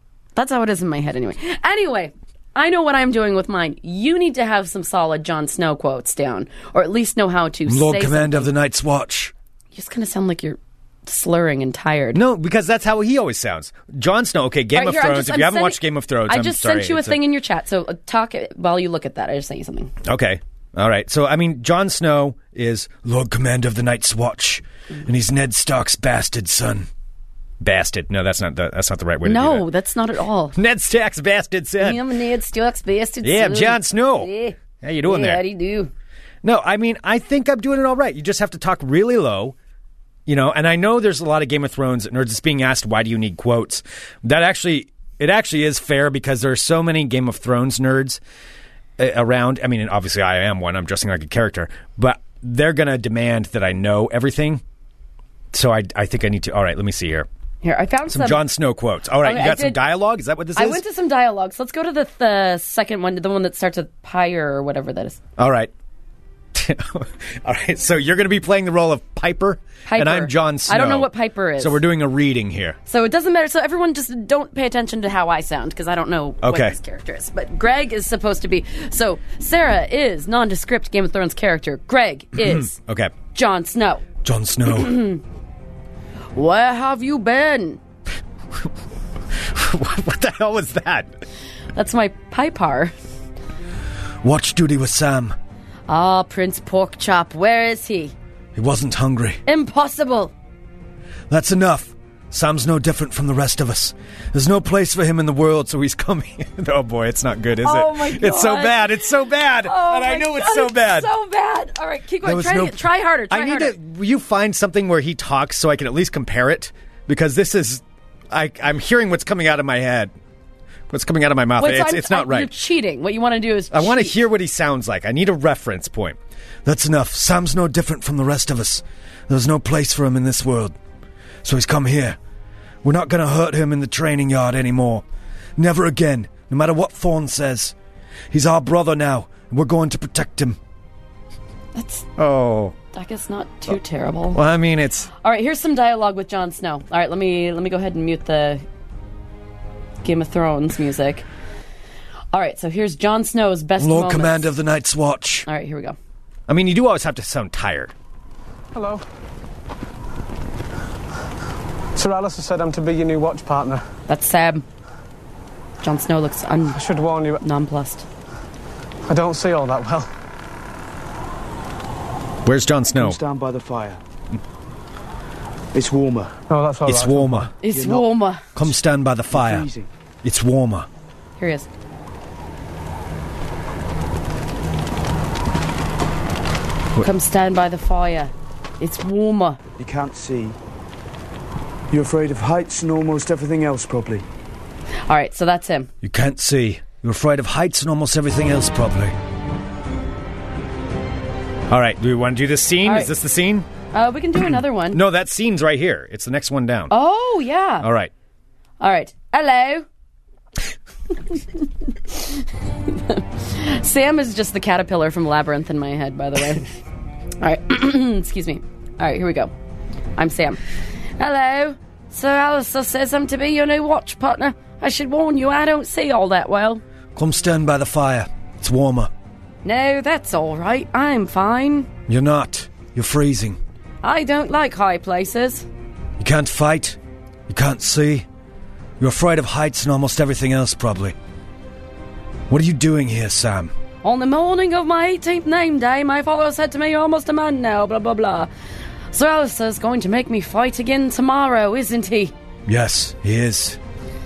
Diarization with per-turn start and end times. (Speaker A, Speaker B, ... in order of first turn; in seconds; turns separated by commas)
Speaker A: 0.4-8.5, Speaker B: 7.7-9.3, Speaker A: 9.7-12.2, Speaker B: 12.1-17.2, Speaker A: 14.7-19.9, Speaker B: 20.0-26.9, Speaker B: 27.6-29.7, Speaker A: 29.2-30.6, Speaker B: 30.6-32.0, Speaker A: 31.8-35.9, Speaker B: 33.2-34.3, Speaker B: 34.8-35.4, Speaker B: 36.4-39.5, Speaker B: 40.3-48.2, Speaker B: 49.0-54.6, Speaker B: 55.5-57.3, Speaker A: 57.6-58.5, Speaker B: 58.1-60.8, Speaker A: 59.2-59.8, Speaker A: 60.5-65.2, Speaker B: 65.4-65.7, Speaker B: 66.5-72.8, Speaker A: 69.9-71.8, Speaker A: 72.9-82.7, Speaker B: 76.4-76.8, Speaker B: 82.4-83.1, Speaker A: 83.3-84.0, Speaker B: 84.2-85.0, Speaker A: 84.7-85.2, Speaker A: 86.3-87.8, Speaker B: 89.4-91.1, Speaker A: 91.8-92.9, Speaker B: 94.2-95.3, Speaker A: 95.9-98.1, Speaker B: 98.5-99.4, Speaker A: 99.5-100.3, Speaker B: 101.3-111.1, Speaker A: 107.6-109.0, Speaker A: 109.6-113.8, Speaker B: 112.2-120.1, Speaker B: 120.9-122.5, Speaker A: 121.6-124.2, Speaker B: 123.7-130.8, Speaker B: 131.4-132.2, Speaker B: 132.8-135.0, Speaker B: 135.6-137.8, Speaker B: 138.3-140.6, Speaker A: 141.8-142.1, Speaker B: 142.2-142.8, Speaker A: 142.9-144.4, Speaker B: 144.3-145.1, Speaker A: 145.1-148.6, Speaker A: 150.0-151.2, Speaker A: 152.3-154.5, Speaker B: 153.8-155.5, Speaker A: 155.5-156.0, Speaker B: 156.5-157.9, Speaker C: 158.7-159.0, Speaker C: 162.0-163.8, Speaker A: 164.1-164.7, Speaker A: 165.8-166.8, Speaker C: 166.8-167.4, Speaker A: 167.4-168.1, Speaker C: 169.1-170.1, Speaker B: 172.4-173.2, Speaker D: 172.9-174.0, Speaker D: 175.7-176.3, Speaker C: 176.5-177.5, Speaker B: 176.9-177.5, Speaker A: 177.6-178.4, Speaker D: 177.7-178.1, Speaker B: 178.6-179.7, Speaker D: 179.3-179.9, Speaker B: 180.2-180.9, Speaker A: 181.4-181.7, Speaker A: 187.0-189.6, Speaker D: 189.8-190.6, Speaker D: 191.9-194.2, Speaker A: 195.1-195.9, Speaker B: 196.0-199.2, Speaker B: 201.7-203.7, Speaker A: 202.8-203.1, Speaker A: 203.9-205.0, Speaker B: 204.9-206.9, Speaker A: 206.9-207.9, Speaker B: 207.8-208.1, Speaker A: 208.8-209.9, Speaker A: 211.3-216.7, Speaker A: 217.4-219.5, Speaker A: 220.2-220.6, Speaker A: 221.2-226.8, Speaker B: 227.2-229.1, Speaker A: 229.6-231.9, Speaker B: 232.1-233.6, Speaker A: 234.0-235.7, Speaker B: 236.2-237.0, Speaker B: 237.5-238.3, Speaker B: 239.0-241.2, Speaker B: 242.5-243.7, Speaker A: 244.0-248.5, Speaker A: 249.1-252.3, Speaker B: 252.7-253.8